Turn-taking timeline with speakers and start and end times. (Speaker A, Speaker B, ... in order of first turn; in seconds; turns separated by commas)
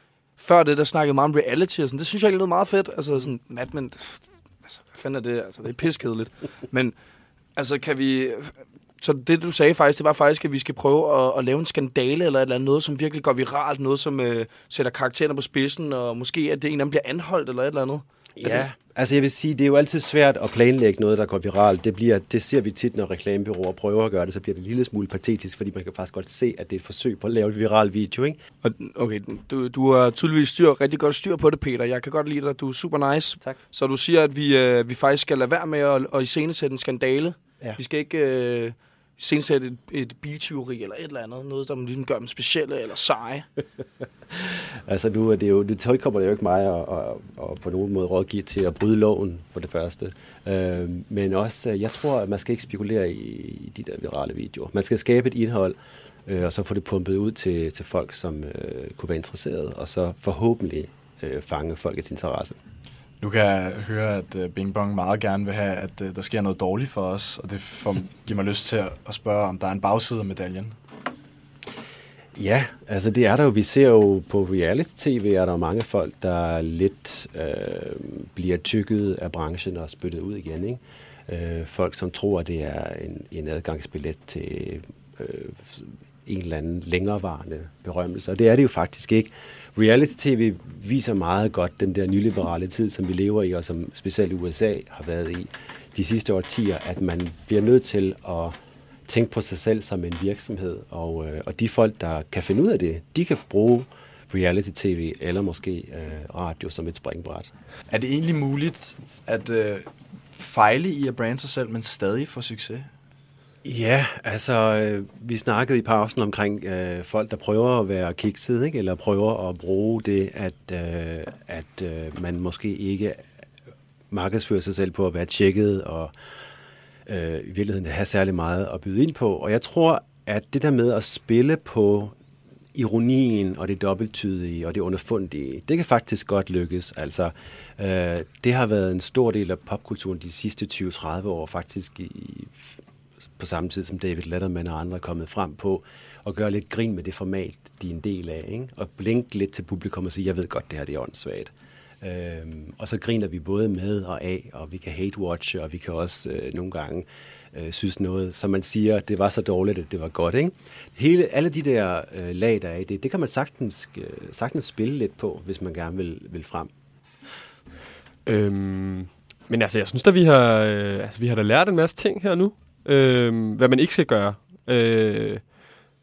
Speaker A: 0.3-18.6, Speaker B: 18.4-28.4, Speaker A: 28.6-43.5, Speaker B: 44.9-55.8, Speaker B: 56.3-62.6, Speaker C: 63.2-70.7, Speaker B: 72.3-98.5, Speaker B: 99.1-107.5, Speaker C: 107.9-112.9, Speaker B: 113.6-123.2, Speaker B: 124.1-126.1, Speaker B: 127.1-132.1, Speaker B: 132.7-142.8, Speaker B: 143.3-166.7, Speaker D: 168.2-175.7